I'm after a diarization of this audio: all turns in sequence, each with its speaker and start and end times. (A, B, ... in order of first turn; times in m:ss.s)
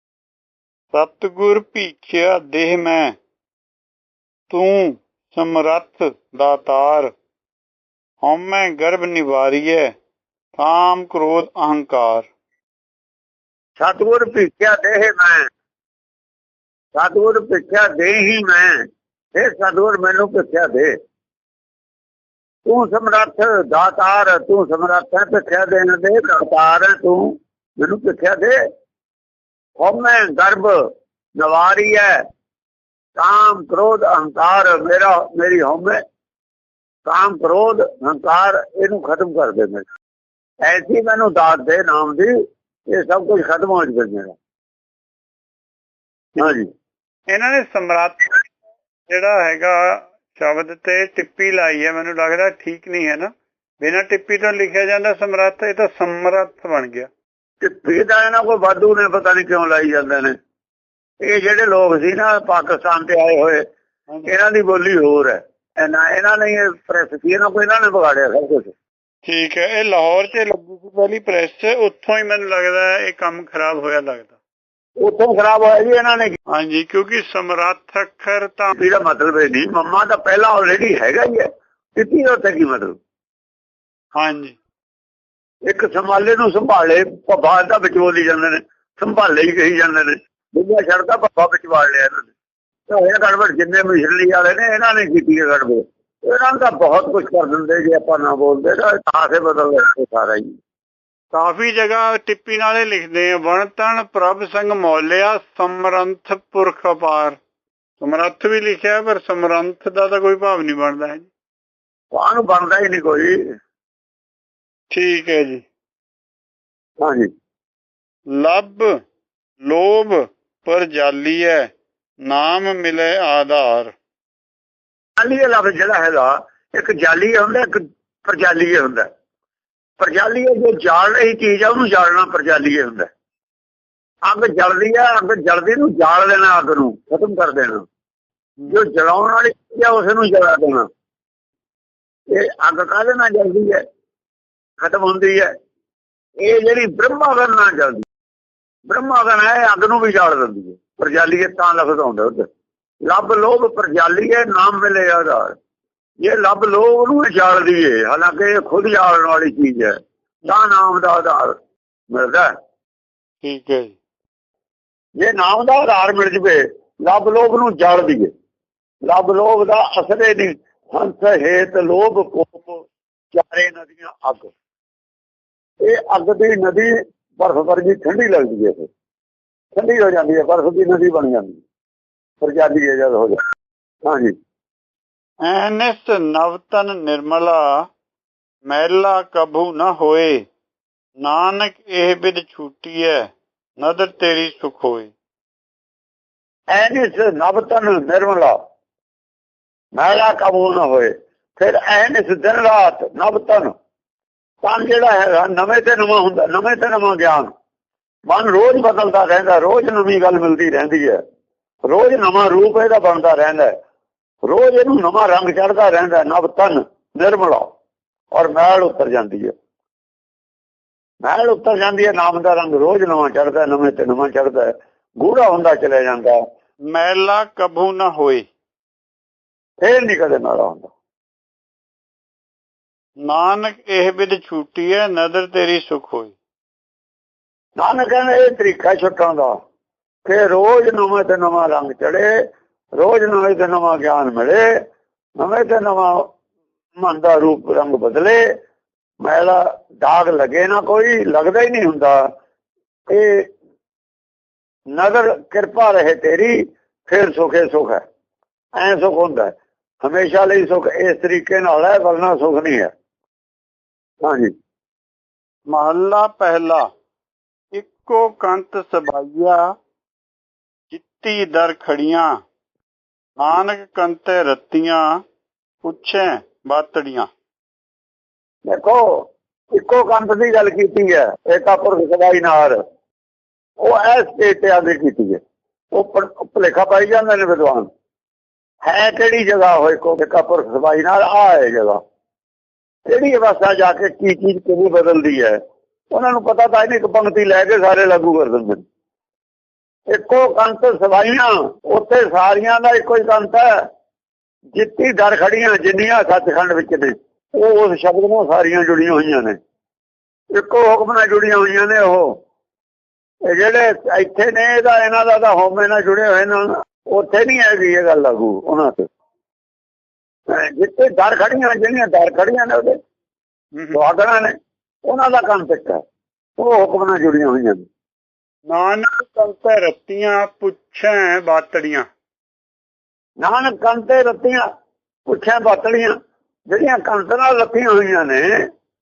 0:00.9-0:03.1 A
0:04.5-0:07.1 A
0:08.2-0:09.9 A
0:10.6-0:12.3 A
0:13.8-0:15.4 B
0:16.9-0:18.8 B
0:19.3-0:20.9 B
0:22.6-0:28.6 B
0:29.8-0:30.8 B
0:31.4-0:32.2 B
0:33.2-0:36.0 B
0:37.0-0:39.8 B
0:40.6-0:42.3 B
0:42.9-0:44.3 B
0:46.4-0:46.6 B
0:47.3-0:48.2 A
0:49.1-0:57.1 A
0:57.6-1:00.3 B
1:01.2-1:03.6 B
1:04.2-1:08.7 B
1:09.2-1:14.4 A
1:15.0-1:16.3 B
1:16.5-1:18.8 A
1:18.8-1:22.9 B
1:24.2-1:24.6 A
1:25.6-1:32.3 B
1:32.9-1:40.4 B
1:41.3-1:47.4 A
1:48.0-1:51.3 A
1:52.1-1:53.4 B
1:54.9-1:55.6 A
1:57.0-1:57.3 B
1:58.3-1:58.9 A
1:59.6-2:01.7 A
2:02.2-2:03.9 A
2:05.2-2:09.1 B
2:10.0-2:13.1 B
2:14.2-2:17.8 B
2:18.7-2:20.9 B
2:22.3-2:23.8 B
2:24.8-2:25.5 B
2:26.4-2:28.0 B
2:28.9-2:32.5 B
2:33.1-2:35.5 B
2:36.2-2:39.9 B
2:40.5-2:41.5 B
2:42.1-2:42.5 B
2:43.4-2:43.9 A
2:45.2-2:48.3 B
2:49.1-2:54.5 B
2:55.8-2:58.9 B
2:59.7-3:01.6 B
3:02.4-3:03.3 B
3:04.0-3:04.3 B
3:05.4-3:07.8 A
3:08.6-3:10.4 A
3:11.2-3:13.3 A
3:13.8-3:15.1 A
3:16.7-3:18.6 B
3:19.9-3:23.7 B
3:24.6-3:27.5 B
3:28.3-3:31.2 B
3:31.9-3:33.7 B
3:34.5-3:37.7 B
3:38.3-3:39.5 B
3:41.2-3:44.7 B
3:45.2-3:46.4 B
3:46.9-3:48.5 A
3:49.8-3:50.9 B
3:53.2-3:56.3 A
3:57.8-3:59.5 B
4:00.2-4:02.3 B
4:03.0-4:04.6 B
4:05.4-4:06.2 B
4:07.0-4:08.4 B
4:09.2-4:12.2 B
4:13.1-4:13.5 B
4:14.9-4:18.0 B
4:18.8-4:22.9 B
4:24.2-4:24.5 B
4:25.7-4:26.9 A
4:27.7-4:29.7 A
4:30.9-4:32.3 A
4:33.4-4:35.0 A
4:35.8-4:37.3 A
4:38.7-4:42.8 B
4:43.8-4:45.4 B
4:45.9-4:47.9 B
4:48.8-4:52.0 B
4:53.0-4:55.6 B
4:56.1-4:58.8 B
5:00.1-5:03.8 B
5:04.7-5:09.6 B
5:10.5-5:12.3 B
5:13.4-5:19.0 B
5:20.5-5:22.9 B
5:23.9-5:24.5 B
5:25.0-5:26.0 B
5:26.6-5:27.8 B
5:28.7-5:32.1 A
5:33.4-5:34.6 B
5:35.3-5:36.1 B
5:36.7-5:38.6 B